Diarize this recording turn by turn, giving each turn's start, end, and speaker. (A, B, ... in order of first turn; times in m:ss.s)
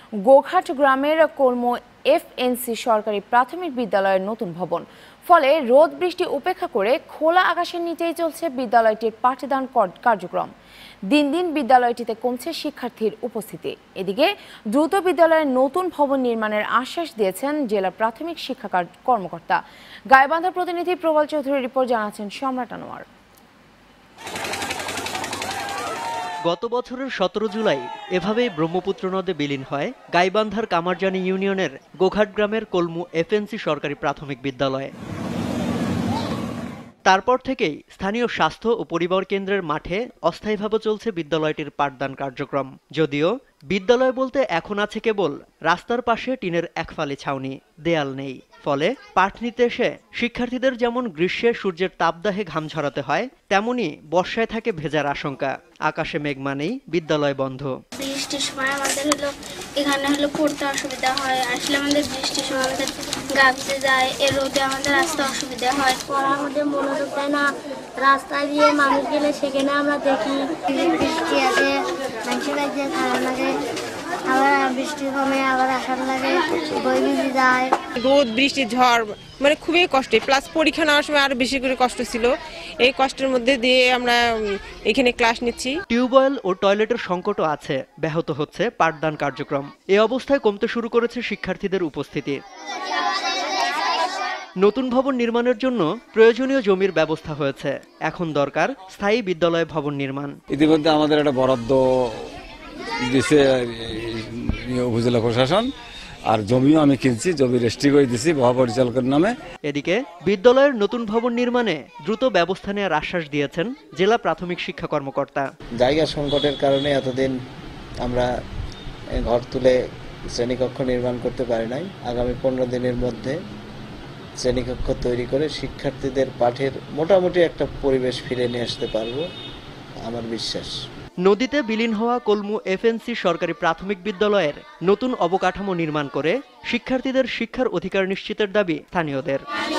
0:00.3-0:10.5 A
0:11.1-0:23.0 A
0:26.5-0:34.9 B
0:37.1-0:57.7 B
0:58.0-1:06.0 C
1:06.1-1:11.7 D
1:12.3-1:13.5 D
1:14.3-1:17.7 D
1:18.0-1:25.8 E
1:25.9-1:32.4 B
1:34.6-1:40.3 B
1:40.5-1:41.8 F
1:43.1-1:45.7 F
1:46.3-1:49.3 F
1:49.7-1:55.5 B
1:55.8-1:57.3 G
1:59.2-1:59.7 G
2:00.4-2:03.4 G
2:04.4-2:09.2 G
2:10.1-2:10.7 G
2:11.2-2:19.4 B